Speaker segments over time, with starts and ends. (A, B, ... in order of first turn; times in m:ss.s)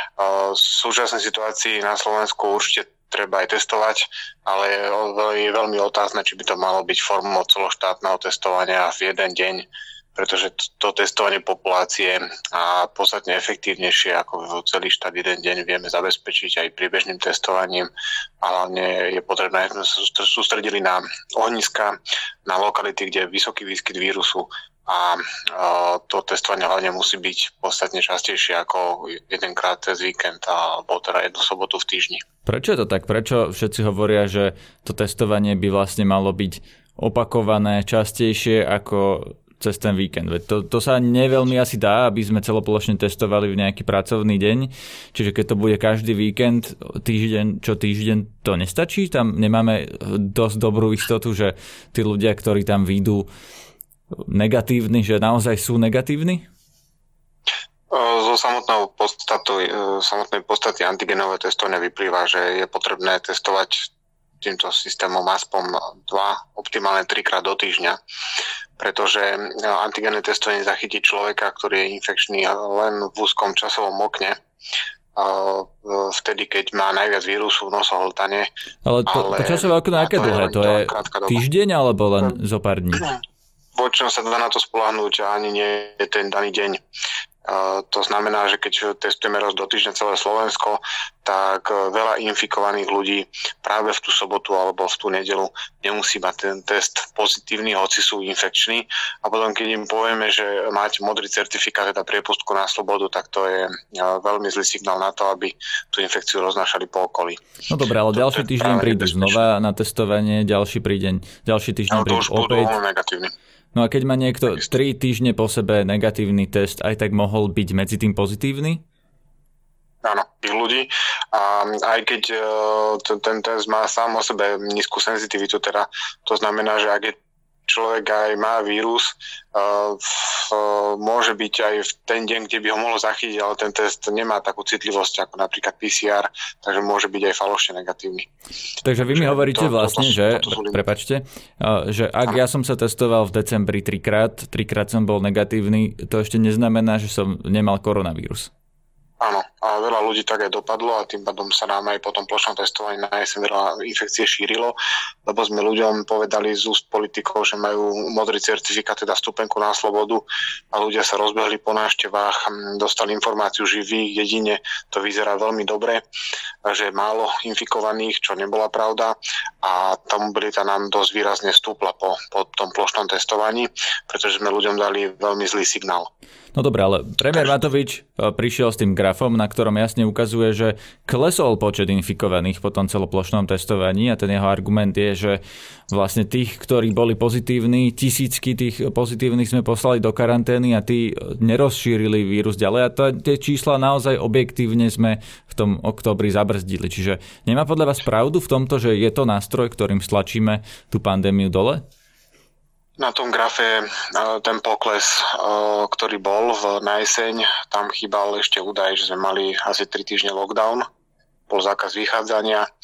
0:00.2-0:17.9 A
0:18.4-0:32.2 A
0:32.5-0:53.3 B
0:54.3-0:56.5 B
0:57.9-1:03.9 A
1:04.4-1:08.0 A
1:08.8-1:14.4 A
1:15.2-1:18.5 A
1:18.8-1:23.1 B
1:19.1-1:21.4 A
1:23.8-1:26.8 A
1:27.5-1:47.4 A
1:47.7-1:52.7 B
1:48.1-1:49.4 A
1:51.9-1:53.3 A
1:53.7-1:58.8 B
2:00.0-2:07.2 A
2:07.7-2:18.3 A
2:18.8-2:28.5 B
2:19.0-2:20.8 A
2:29.2-2:46.0 A
2:46.6-2:56.1 A
2:56.6-3:21.8 B
3:23.0-3:30.9 A
3:31.5-3:32.7 A